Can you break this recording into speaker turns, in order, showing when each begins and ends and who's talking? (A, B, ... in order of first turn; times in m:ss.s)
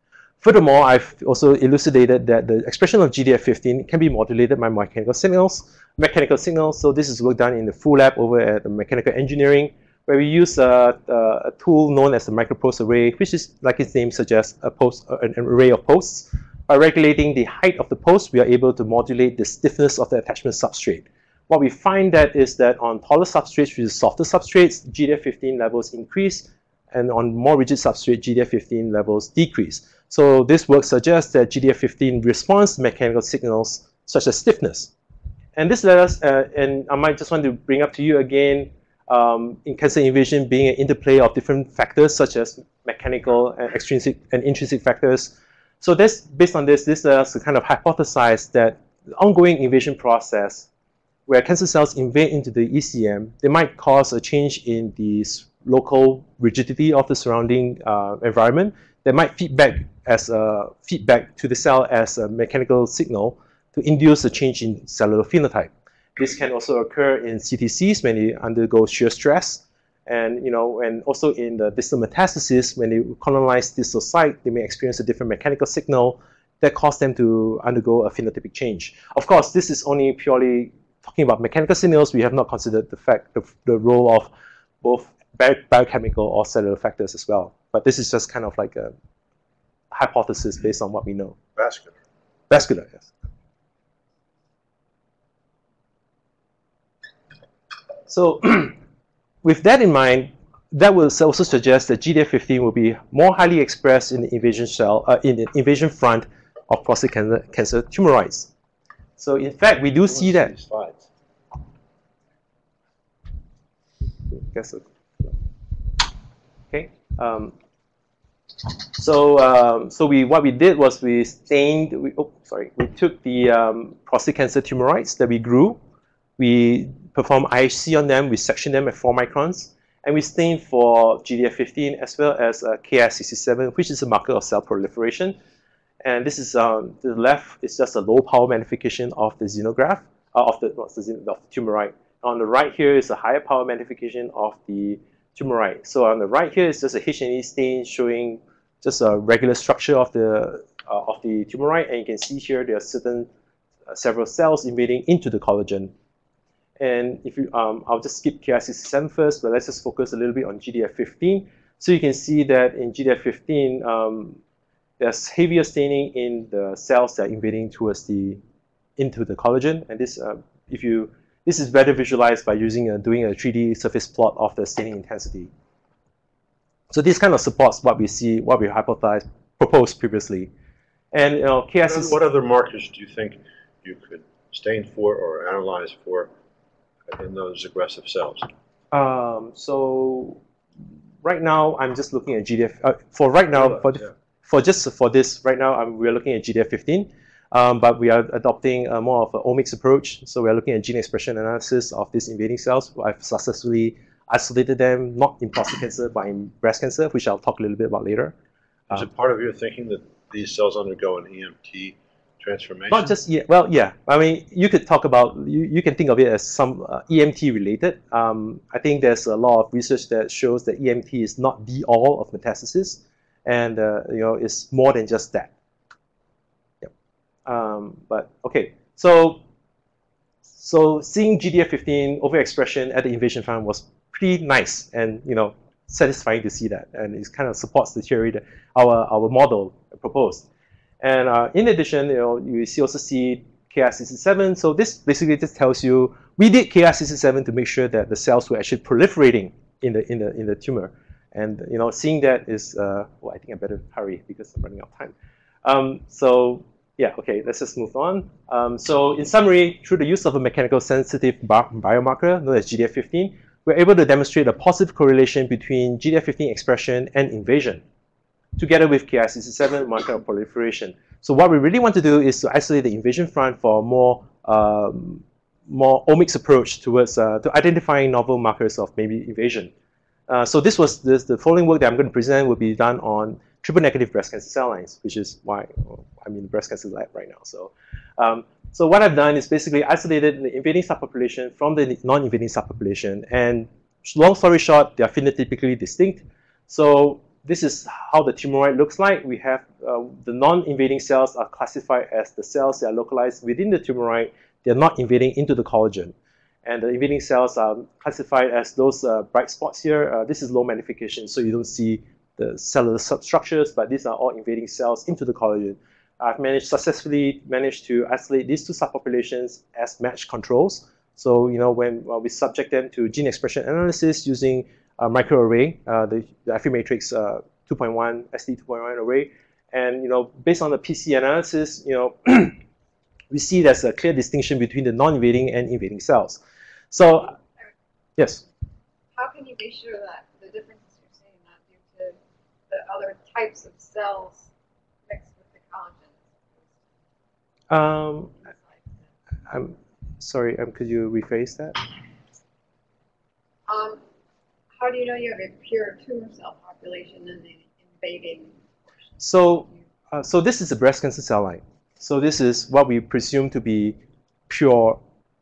0:00.4-0:34.9 A
0:35.6-0:50.7 A
0:51.3-1:24.3 A
1:24.8-1:28.9 A
1:29.9-1:31.4 A
1:31.6-1:32.0 B
1:32.5-1:33.1 A
1:38.1-1:38.8 A
1:39.4-1:48.5 A
1:49.2-1:50.5 A
1:50.1-1:51.0 B
1:54.3-1:55.4 A
1:56.7-1:57.6 A
1:58.9-2:05.8 A
2:06.4-2:15.4 A
2:16.0-2:33.3 A
2:33.9-2:35.9 A
2:36.8-2:44.4 A
2:45.0-2:48.4 A
2:49.0-2:55.5 A
2:56.9-3:00.5 A
3:01.1-3:02.2 A
3:01.9-3:06.3 B
3:07.1-3:08.5 B
3:08.9-3:10.4 A
3:11.2-3:28.4 A
3:13.6-3:14.1 B
3:28.9-3:33.2 B
3:32.9-3:45.5 A
3:47.5-3:49.4 A
3:50.5-4:00.5 A
4:01.0-4:27.8 A
4:28.6-4:39.7 A
4:40.3-5:06.1 A
5:06.6-5:32.6 A
5:33.3-5:37.4 A
5:37.4-5:37.7 C
5:39.1-5:42.2 C
5:42.7-5:44.5 C
5:45.1-5:46.9 C
5:47.7-5:48.3 A
5:48.4-5:49.1 C
5:49.5-5:51.8 A
5:53.7-5:54.0 C
5:54.7-5:58.6 C
5:59.2-6:04.0 A
6:04.5-6:05.0 A